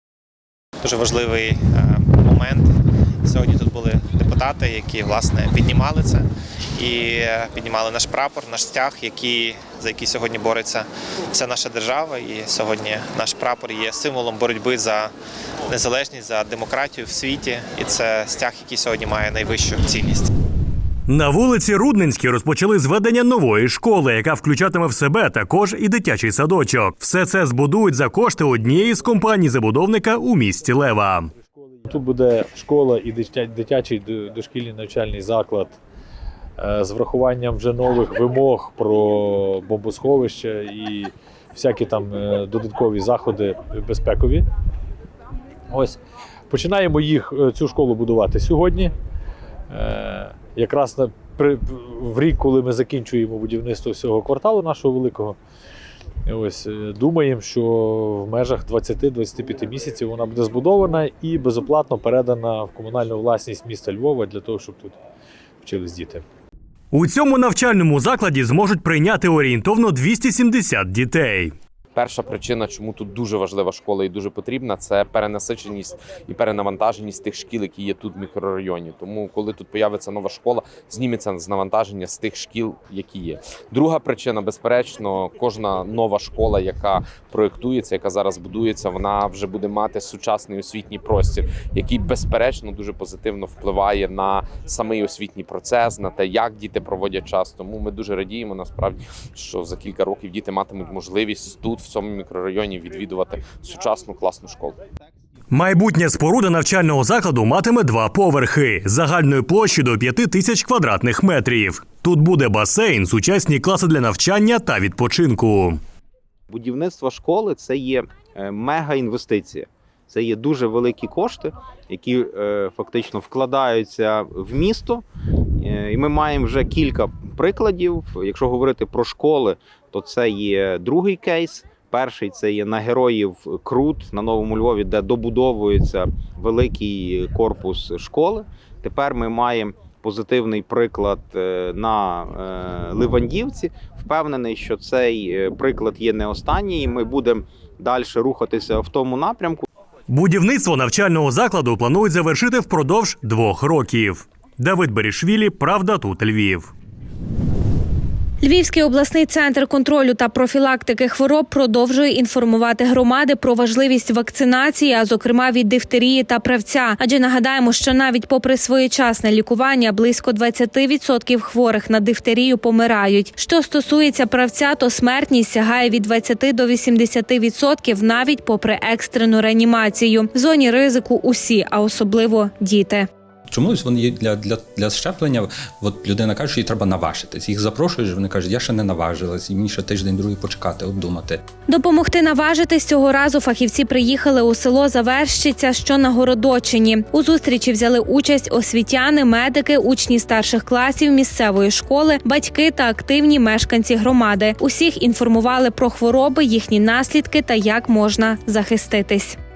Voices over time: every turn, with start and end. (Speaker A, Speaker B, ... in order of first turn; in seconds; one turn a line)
Speaker A: 0.8-2.7
Speaker A: 3.2-6.2
Speaker A: 6.8-15.1
Speaker A: 15.7-20.3
Speaker B: 21.1-31.3
Speaker C: 31.6-35.8
Speaker C: 36.6-44.5
Speaker C: 45.7-46.0
Speaker C: 46.5-48.9
Speaker C: 49.7-55.4
Speaker C: 56.2-65.0
Speaker C: 65.6-66.2
Speaker B: 66.9-71.5
Speaker D: 71.9-104.8
Speaker B: 105.5-115.8
Speaker E: 116.5-125.0
Speaker E: 125.6-149.6
Speaker B: 150.1-156.7
Speaker F: 158.4-183.1
Speaker G: 183.5-191.4
Speaker F: 191.7-209.4